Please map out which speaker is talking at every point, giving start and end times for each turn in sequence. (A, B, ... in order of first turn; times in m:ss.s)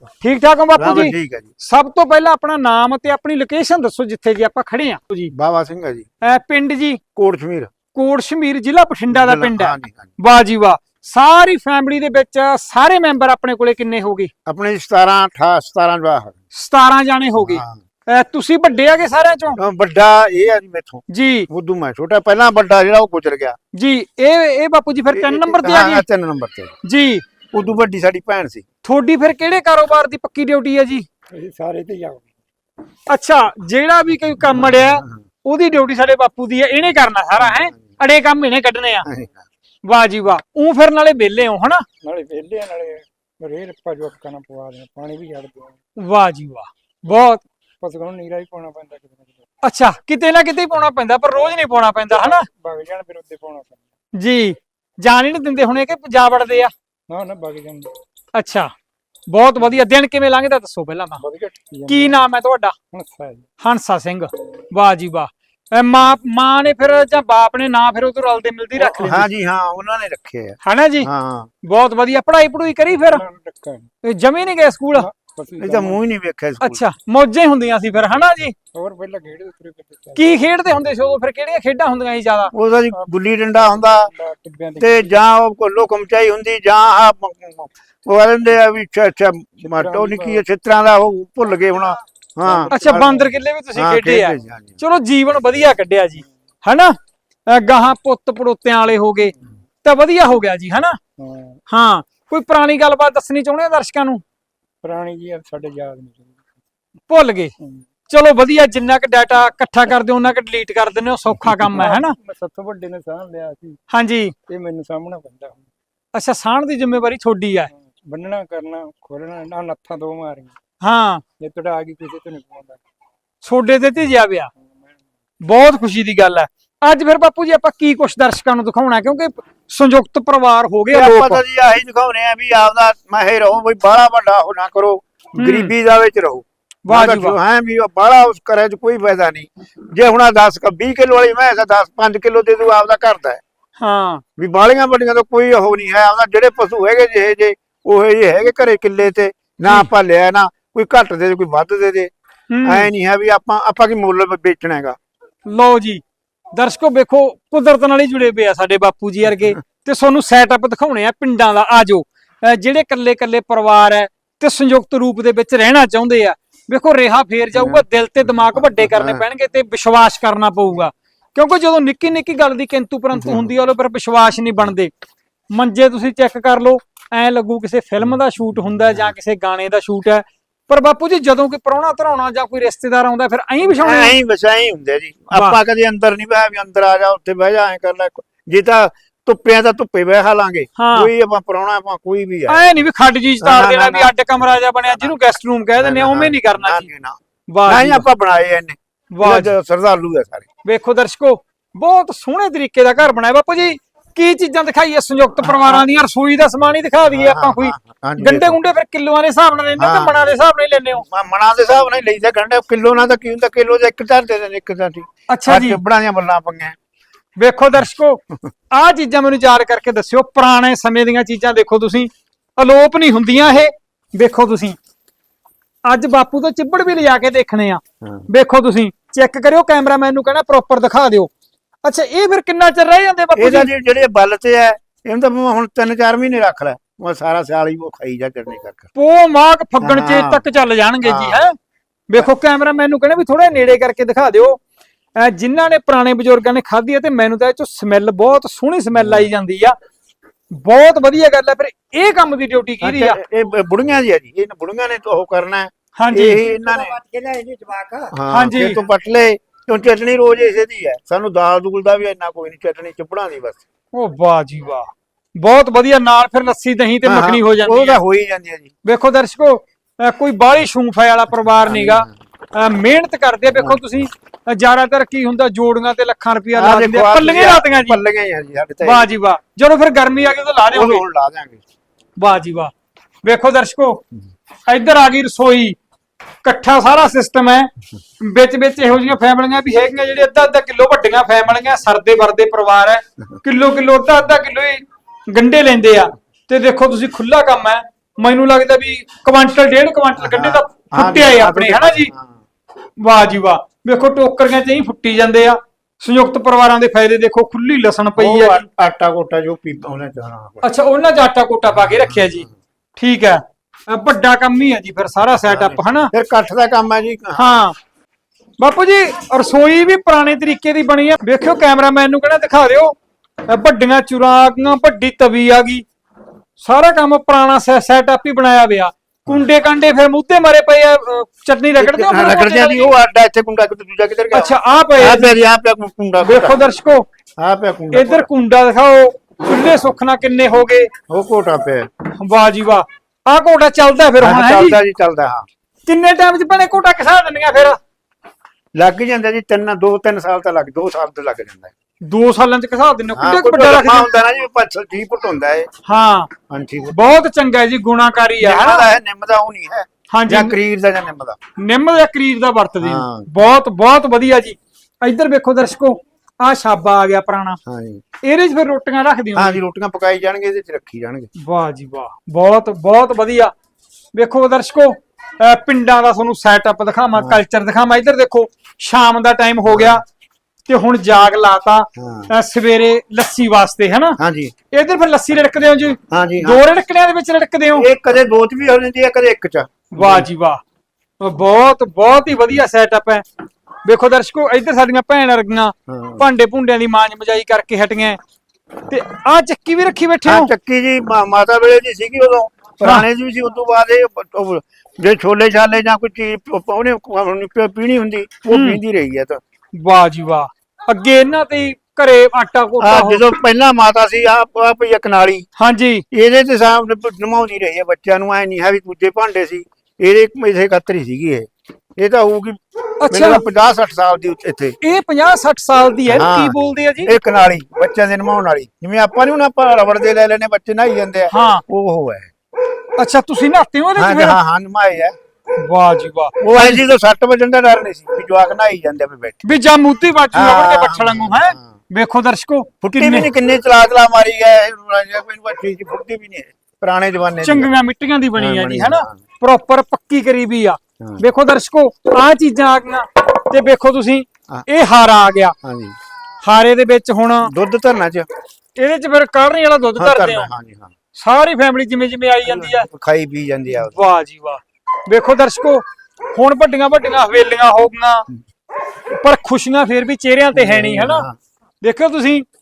0:00.2-0:05.3 A
0:00.8-0:01.5 B
0:05.3-0:06.1 B
0:06.2-0:07.0 A
0:07.2-0:07.7 B
0:07.9-0:14.3 A
0:09.1-0:10.1 B
0:14.5-0:16.4 B
0:16.5-0:19.6 A
0:17.4-0:17.8 B
0:19.6-0:23.6 B
0:21.1-0:21.5 A
0:23.8-0:26.0 A
0:25.1-0:26.7 B
0:26.8-0:27.2 A
0:27.5-0:28.6 B
0:28.8-0:31.1 A
0:31.3-0:32.3 C
0:33.1-0:39.1 A
0:37.4-0:37.9 B
0:39.0-0:39.4 B
0:39.9-0:41.8 A
0:42.0-0:45.8 C
0:46.0-0:47.4 A
0:47.8-0:49.4 C
0:49.6-0:52.5 A
0:52.1-0:53.8 C
0:54.2-0:56.7 A
0:57.1-0:57.9 C
0:58.4-0:58.7 A
0:59.3-1:01.2 A
1:01.2-1:02.2 C
1:01.9-1:02.7 A
1:02.9-1:03.4 C
1:03.6-1:09.3 A
1:08.9-1:11.5 B
1:10.6-1:11.1 A
1:11.6-1:13.2 A
1:13.1-1:13.9 C
1:14.0-1:15.1 A
1:15.0-1:16.0 C
1:15.6-1:16.8 B
1:16.6-1:18.6 A
1:18.7-1:20.4 C
1:20.2-1:22.5 A
1:22.5-1:24.1 B
1:23.7-1:25.2 C
1:24.8-1:34.8 B
1:29.6-1:30.4 C
1:32.4-1:33.3 C
1:32.7-1:37.0 A
1:37.5-1:41.0 A
1:41.2-1:41.6 C
1:41.7-1:44.2 A
1:44.8-1:46.4 C
1:47.1-1:47.5 A
1:47.6-1:47.8 C
1:48.1-1:52.2 A
1:51.7-1:53.8 C
1:53.9-1:54.3 A
1:54.5-1:55.7 C
1:56.1-1:57.7 A
1:57.7-2:00.5 C
2:00.8-2:01.2 A
2:01.4-2:02.8 C
2:03.4-2:04.5 A
2:04.6-2:05.0 C
2:05.4-2:11.4 A
2:10.9-2:23.4 B
2:15.4-2:15.7 A
2:16.8-2:17.4 A
2:23.8-2:24.2 A
2:24.4-2:32.1 B
2:32.5-2:32.9 A
2:32.6-2:35.0 B
2:35.5-2:36.0 A
2:36.6-2:54.9 A
2:47.5-2:47.8 B
2:48.4-2:49.2 B
2:53.2-2:53.5 B
2:55.5-3:04.2 A
3:03.8-3:12.6 B
3:05.3-3:05.6 A
3:10.8-3:11.1 A
3:12.5-3:16.9 A
3:13.4-3:14.1 B
3:14.8-3:15.2 B
3:15.8-3:20.5 B
3:17.5-3:18.1 A
3:19.1-3:19.5 A
3:20.6-3:31.0 A
3:25.4-3:25.9 B
3:27.1-3:28.6 B
3:29.8-3:30.3 B
3:31.0-3:36.8 B
3:35.3-3:35.8 A
3:37.4-3:38.2 A
3:38.7-3:44.8 A
3:45.9-3:51.3 A
3:48.0-3:48.3 B
3:51.8-3:53.7 A
3:53.4-3:58.9 B
3:59.0-4:01.6 A
3:59.8-4:00.4 B
4:01.0-4:01.4 B
4:02.1-4:04.6 A
4:05.2-4:09.8 A
4:08.9-4:09.3 B
4:10.5-4:13.2 A
4:12.8-4:17.0 B
4:16.0-4:16.4 A
4:16.4-4:18.1 C
4:18.1-4:23.6 B
4:18.3-4:18.8 A
4:23.9-4:28.0 A
4:27.0-4:28.7 B
4:28.8-4:38.0 A
4:31.7-4:32.1 B
4:33.6-4:33.8 B
4:36.6-4:39.1 B
4:38.8-4:41.0 A
4:40.7-4:41.6 B
4:42.2-4:42.7 A
4:43.2-4:44.0 A
4:44.7-4:45.8 A
4:46.4-4:47.7 A
4:48.2-5:02.1 A
5:00.2-5:02.4 B
5:03.0-5:08.6 A
5:08.2-5:10.6 B
5:10.6-5:12.4 A
5:11.7-5:12.5 B
5:13.0-5:16.1 A
5:15.4-5:17.6 B
5:17.4-5:17.8 A
5:18.6-5:23.0 A
5:23.5-5:25.8 A
5:26.6-5:32.9 A
5:31.8-5:36.6 B
5:34.3-5:35.3 A
5:36.2-5:37.0 A
5:37.4-5:38.3 B
5:37.9-5:40.9 A
5:41.1-5:41.9 B
5:42.2-5:44.8 A
5:44.2-5:45.4 B
5:45.9-5:47.8 A
5:48.8-5:51.7 B
5:52.0-5:54.1 A
5:53.2-5:55.7 B
5:55.8-5:56.3 A
5:56.5-5:57.2 B
5:56.9-5:58.9 A
5:58.4-6:01.4 B
6:00.1-6:00.6 A
6:01.6-6:07.6 A
6:02.8-6:03.3 B
6:07.7-6:08.0 B
6:08.2-6:09.6 A
6:09.4-6:11.3 B
6:11.4-6:13.5 A
6:14.2-6:20.0 A
6:17.2-6:17.4 B
6:19.7-6:20.0 B
6:20.7-6:24.2 A
6:22.0-6:22.3 B
6:24.2-6:24.5 B
6:24.7-6:27.9 A
6:26.1-6:26.6 B
6:27.8-6:30.3 B
6:30.0-6:30.6 A
6:31.2-6:33.2 A
6:33.9-6:38.2 A
6:35.9-6:36.2 B
6:38.9-6:40.5 A
6:40.2-6:49.4 B
6:48.5-6:48.8 A
6:49.8-6:53.2 A
6:52.8-6:55.5 B
6:55.6-6:56.0 A
6:56.1-7:04.8 B
7:03.0-7:03.4 A
7:04.8-7:07.1 A
7:06.1-7:12.3 B
7:11.3-7:11.6 A
7:13.0-7:14.4 A
7:14.0-7:15.1 B
7:15.6-7:16.8 A
7:16.4-7:19.4 B
7:19.4-7:23.3 A
7:20.3-7:21.6 B
7:22.8-7:27.7 B
7:27.4-7:35.6 A
7:28.4-7:29.2 B
7:35.6-7:36.0 B
7:36.4-7:37.5 A
7:37.4-7:38.3 B
7:38.8-7:40.5 A
7:40.0-7:40.9 B
7:41.2-7:42.9 A
7:42.4-7:44.0 B
7:43.8-7:48.3 A
7:49.1-7:51.3 A
7:50.5-7:51.4 B
7:51.8-7:52.4 A